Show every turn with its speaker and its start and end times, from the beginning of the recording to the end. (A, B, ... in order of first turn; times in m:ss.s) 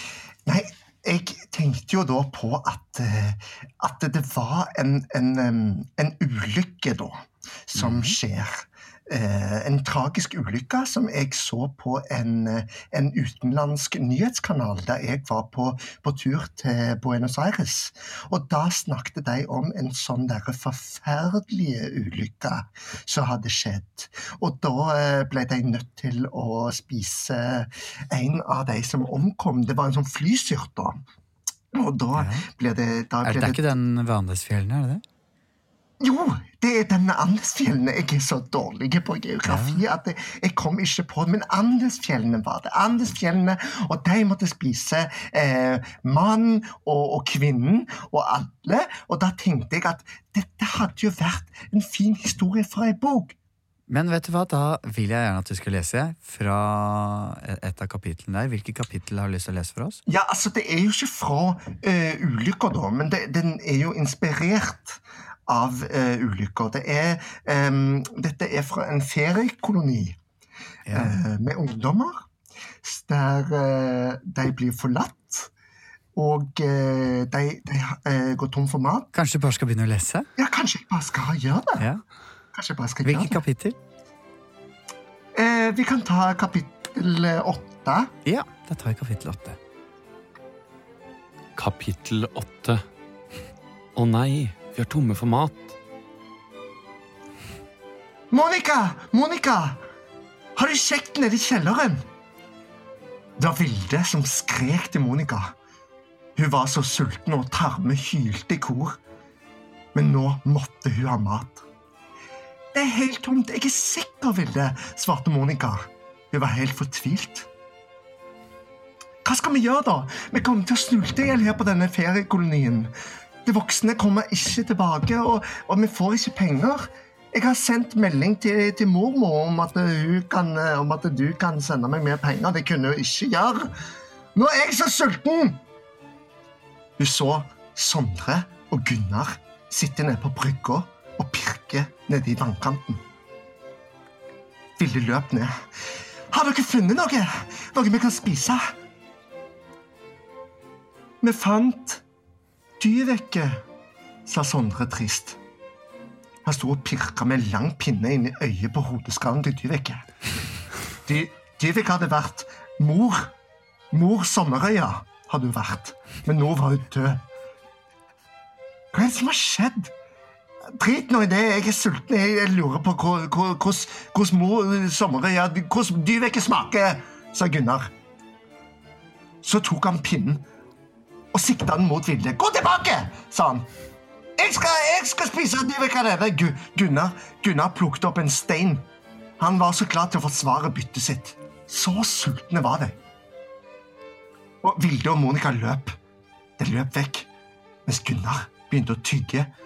0:00.4-0:31.0 A
0:07.8-0:08.2 B
0:31.7-0:33.7 A
0:32.1-0:32.4 B
0:33.2-0:35.0 B
0:36.0-0:53.3 A
0:39.4-0:39.8 B
0:53.9-1:00.0 B
1:00.1-1:10.2 A
1:10.8-1:11.2 B
1:10.9-1:12.2 A
1:12.8-1:15.5 A
1:16.1-1:19.1 A
1:19.1-1:20.3 B
1:20.4-1:21.8 A
1:22.5-1:23.4 A
1:23.0-1:23.8 B
1:25.3-1:28.1 A
1:28.2-1:29.6 B
1:31.6-1:32.8 C
1:34.0-1:35.7 C
1:38.3-1:39.8 A
1:40.6-1:42.0 A
1:43.4-1:45.5 A
1:46.4-1:49.0 A
1:49.9-1:51.6 A
1:52.7-1:57.5 A
1:59.2-2:02.9 A
2:03.4-2:13.7 A
2:14.3-2:15.6 A
2:17.0-2:23.0 A
2:24.8-2:25.6 A
2:26.3-2:28.7 A
2:31.2-2:32.0 A
2:32.8-2:33.6 A
2:34.3-2:35.4 A
2:36.4-2:40.0 A
2:41.0-2:43.3 A
2:43.9-2:47.2 A
2:48.9-2:49.9 A
2:50.8-2:57.9 A
2:59.4-3:00.4 A
3:01.3-3:03.7 A
3:04.4-3:08.8 A
3:09.4-3:13.0 A
3:14.6-3:16.0 A
3:16.6-3:17.3 A
3:17.8-3:19.5 A